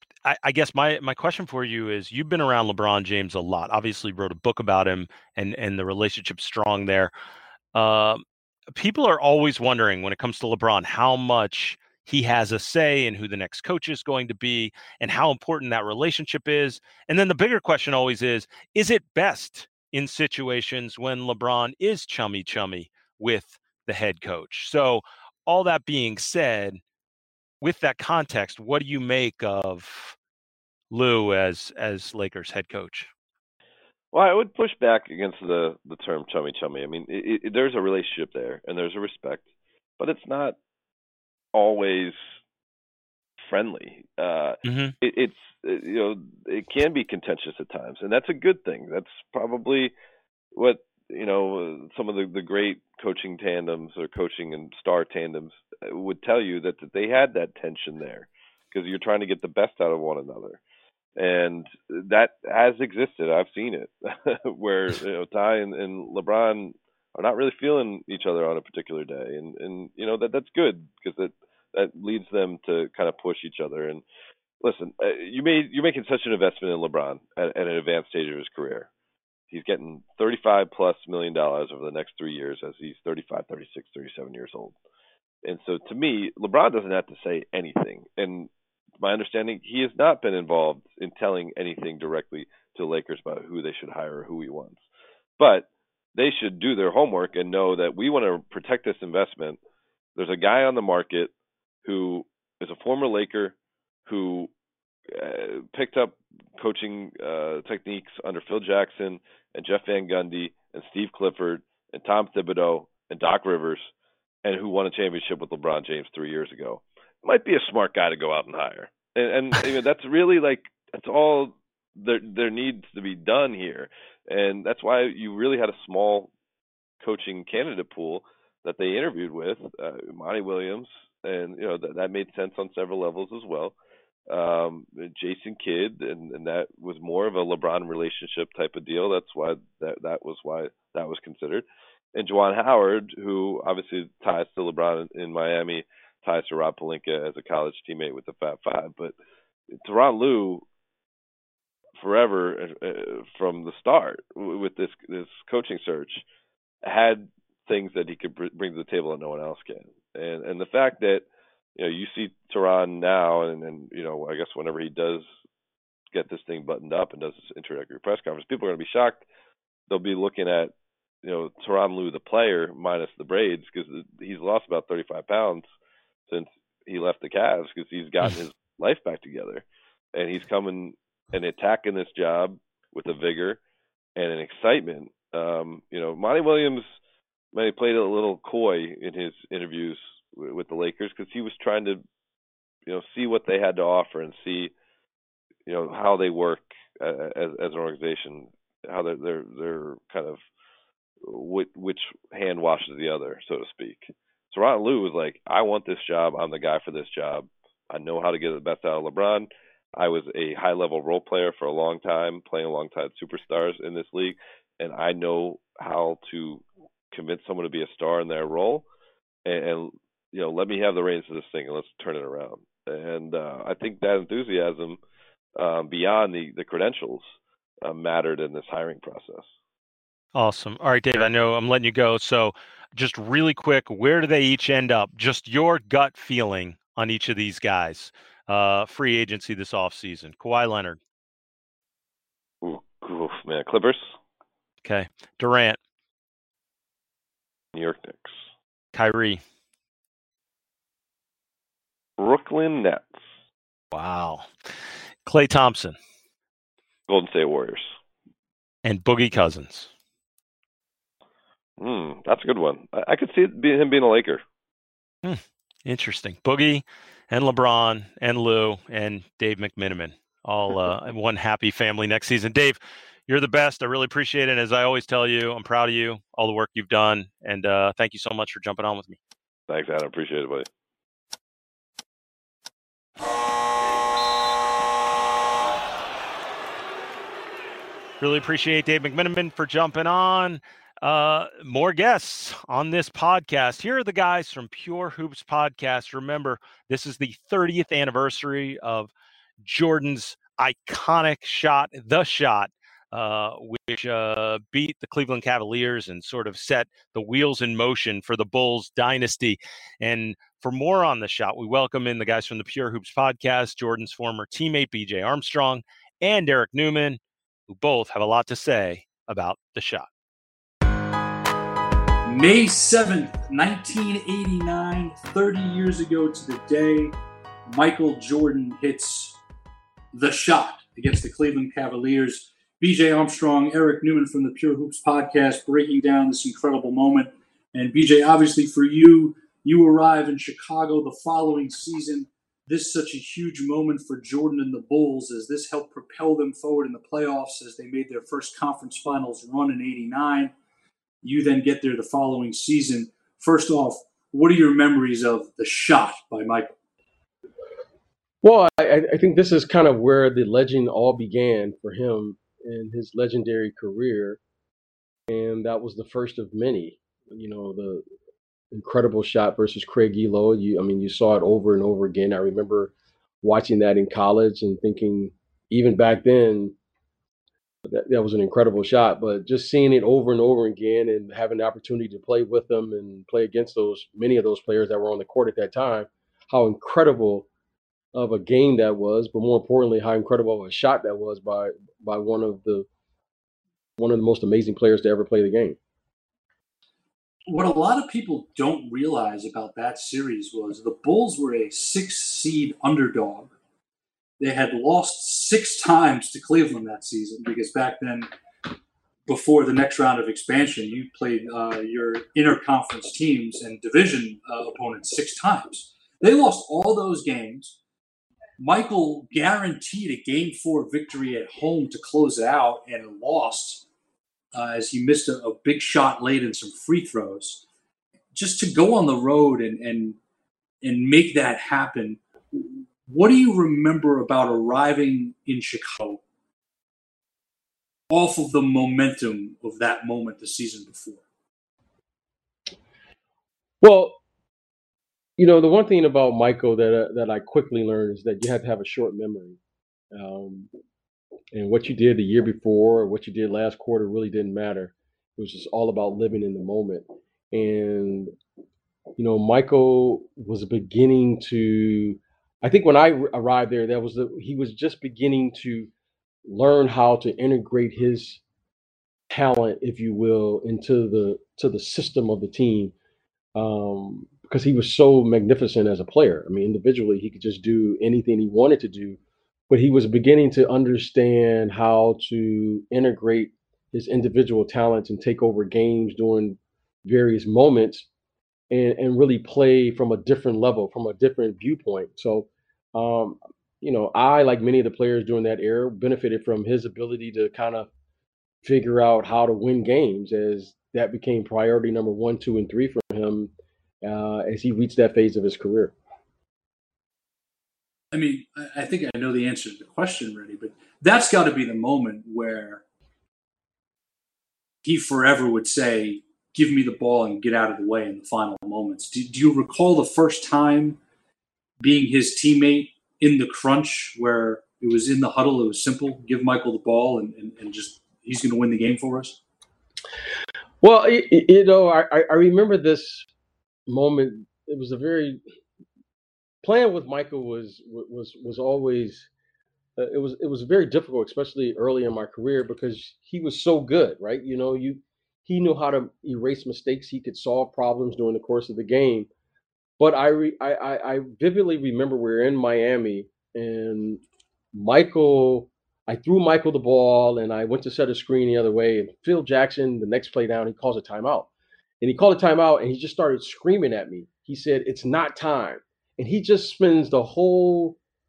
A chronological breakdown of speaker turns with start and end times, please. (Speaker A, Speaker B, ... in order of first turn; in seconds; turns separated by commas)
Speaker A: 0.2-7.1, Speaker A: 7.7-26.8, Speaker A: 27.6-30.2, Speaker A: 30.9-33.1, Speaker B: 34.1-39.5, Speaker B: 40.0-40.6, Speaker B: 41.5-42.3, Speaker B: 43.4-49.9, Speaker A: 44.6-44.9, Speaker B: 50.5-60.6, Speaker B: 61.2-74.0, Speaker B: 74.6-78.9, Speaker B: 79.5-84.8, Speaker B: 85.4-94.8, Speaker B: 95.4-99.6, Speaker B: 100.2-101.3, Speaker B: 101.8-104.5, Speaker B: 105.1-113.9, Speaker B: 114.4-126.3, Speaker B: 127.0-133.8, Speaker B: 134.3-149.2, Speaker B: 149.7-150.7, Speaker B: 152.0-156.2, Speaker B: 156.8-165.2, Speaker B: 166.1-169.2, Speaker B: 169.9-175.7, Speaker B: 176.3-183.6, Speaker B: 184.2-186.9, Speaker B: 187.5-192.0, Speaker B: 192.9-194.7, Speaker B: 195.7-200.4, Speaker B: 201.2-218.9, Speaker B: 219.4-225.0, Speaker B: 225.6-227.3, Speaker B: 227.8-229.5, Speaker A: 230.3-241.0, Speaker B: 242.6-244.2, Speaker A: 244.8-245.8, Speaker B: 247.7-248.4, Speaker A: 248.9-249.4, Speaker B: 252.2-253.3, Speaker A: 253.9-254.5, Speaker A: 255.2-256.0, Speaker B: 257.1-258.0, Speaker A: 258.9-259.9, Speaker B: 261.8-264.4, Speaker A: 265.2-279.2, Speaker B: 279.7-280.7, Speaker A: 288.2-299.1, Speaker A: 299.6-320.1, Speaker C: 322.2-329.4, Speaker C: 330.1-350.5, Speaker C: 351.2-356.7, Speaker D: 358.4-364.4, Speaker D: 365.3-368.1, Speaker D: 368.7-376.7, Speaker D: 377.9-387.5, Speaker D: 388.1-392.9, Speaker D: 394.0-395.8, Speaker C: 397.5-403.5, Speaker C: 404.4-408.3, Speaker C: 409.3-417.8, Speaker C: 418.6-423.9, Speaker C: 424.5-427.6, Speaker C: 428.3-430.2, Speaker C: 430.8-436.2, Speaker C: 438.1-441.2, Speaker D: 443.8-444.2, Speaker D: 445.4-449.6, Speaker D: 450.1-450.7, Speaker D: 451.5-458.3, Speaker D: 459.2-465.9, Speaker D: 466.4-468.4, Speaker D: 469.3-472.9, Speaker D: 473.6-479.2, Speaker D: 479.7-488.1, Speaker D: 488.7-497.9, Speaker D: 498.6-503.5, Speaker D: 504.0-505.9, Speaker C: 508.1-512.8, Speaker C: 514.8-521.0, Speaker C: 521.8-529.4, Speaker D: 530.8-533.3, Speaker D: 533.9-535.4, Speaker D: 536.6-539.3, Speaker D: 540.0-549.3, Speaker D: 550.0-554.2, Speaker D: 554.7-561.5, Speaker D: 562.0-568.0